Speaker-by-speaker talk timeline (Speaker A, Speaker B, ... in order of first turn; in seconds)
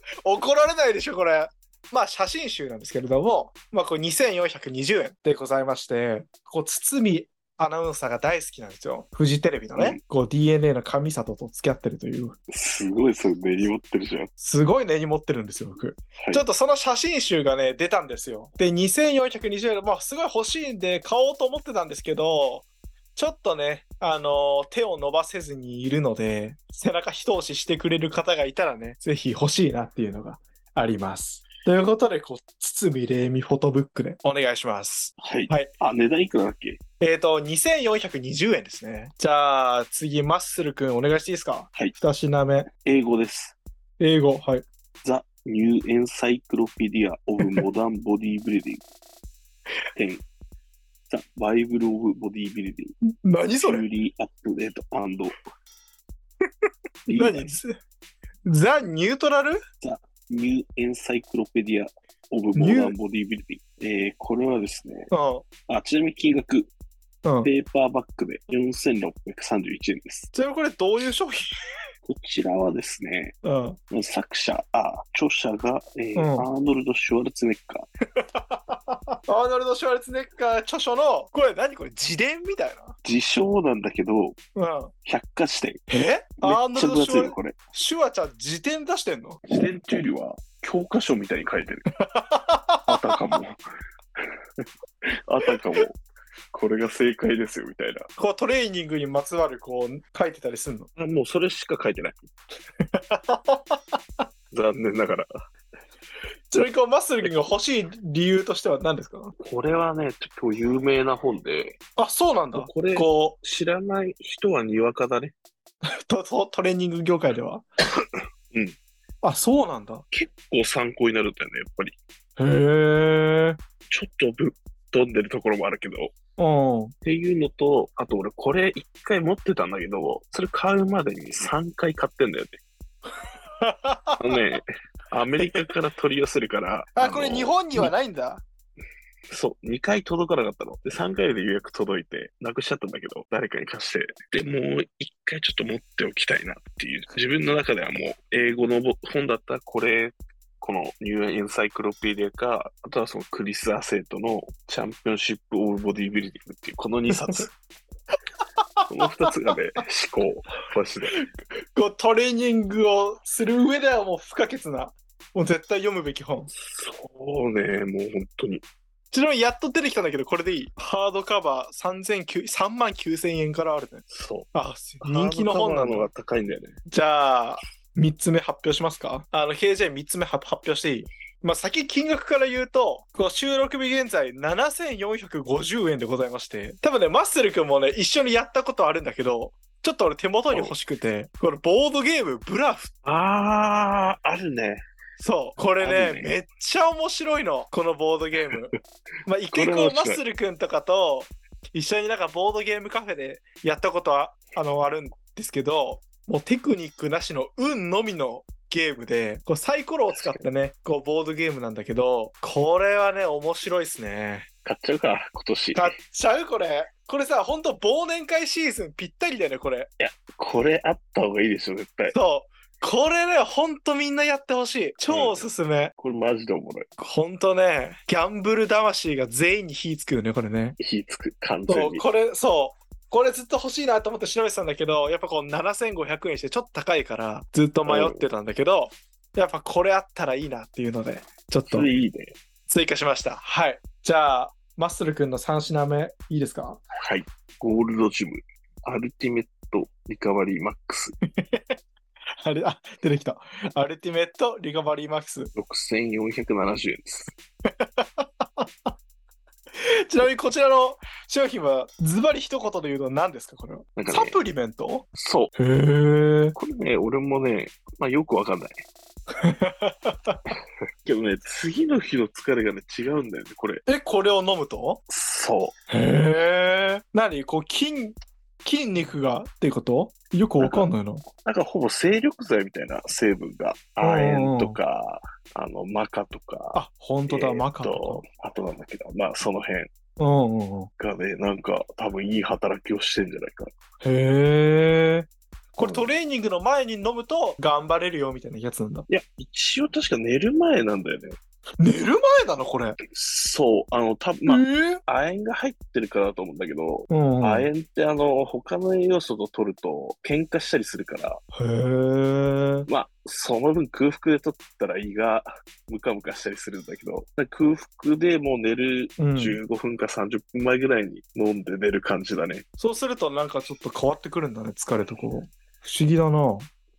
Speaker A: 0.2-12.4, 14.4-35.7, 37.0-42.7, 44.0-44.6, 47.4-47.6, 53.0-53.9, 57.1-57.7, 58.4-59.6, 62.5-62.9, 65.1-65.4, 67.2-67.5, 70.3-71.5, 73.4-73.8, 76.1-76.5, 78.2-83.0, 84.5-84.9, 85.9-89.4, 92.0-93.2, 98.2-100.9, 102.9-103.8, 106.5-109.3, 112.0-113.3, 116.0-117.7, 119.2-120.0, 122.4-123.6, 126.4-126.9, 133.6-134.4, 135.3-135.7, 136.9-138.4, 157.1-157.4, 158.8-159.2, 161.1-166.5, 169.1-176.1, 176.9-192.9, 195.2-214.5, 215.7-219.9, 222.1-225.9, 227.0-230.8, 231.7-241.9, 242.7-246.8, 251.4-251.8, 252.4-255.5, 257.8-258.9, 259.8-266.6, 269.3-270.4, 273.9-275.0, 275.9-281.2, 284.0-284.8, 286.7-288.2, 290.2-290.9, 294.0-299.1, 301.8-303.0, 304.5-305.0, 307.1-307.7, 311.5-312.9, 319.2-319.6, 322.8-326.7
Speaker B: 9.7-10.0, 12.5-14.3, 16.2-16.4, 35.2-36.8, 42.8-43.5, 45.0-48.8, 50.0-50.2, 51.1-52.9, 53.6-55.3, 57.0-57.6, 59.8-65.1, 65.7-66.7, 67.4-70.3, 72.0-73.3, 73.9-77.9, 83.0-84.4, 85.0-85.8, 86.4-87.5, 89.5-91.9, 92.9-93.6, 95.3-96.0, 96.5-98.1, 101.0-102.3, 104.5-105.3, 109.4-111.8, 112.5-115.3, 120.1-121.9, 123.9-126.1, 127.0-132.6, 134.2-137.9, 139.3-157.5, 158.9-161.2, 166.6-168.6, 174.1-174.5, 175.0-176.8, 193.0-194.8, 195.8-196.4, 199.5-200.2, 210.1-210.4, 214.6-215.9, 220.0-222.1, 225.1-225.4, 226.0-226.9, 230.8-232.0, 237.8-238.3, 241.7-242.3, 247.0-251.2, 255.6-257.3, 264.0-264.4, 265.1-265.5, 266.5-268.8, 271.0-273.8, 275.1-275.7, 280.6-280.9, 281.4-289.9, 291.0-293.7, 295.8-296.1, 299.1-301.4, 303.1-311.4, 312.9-322.6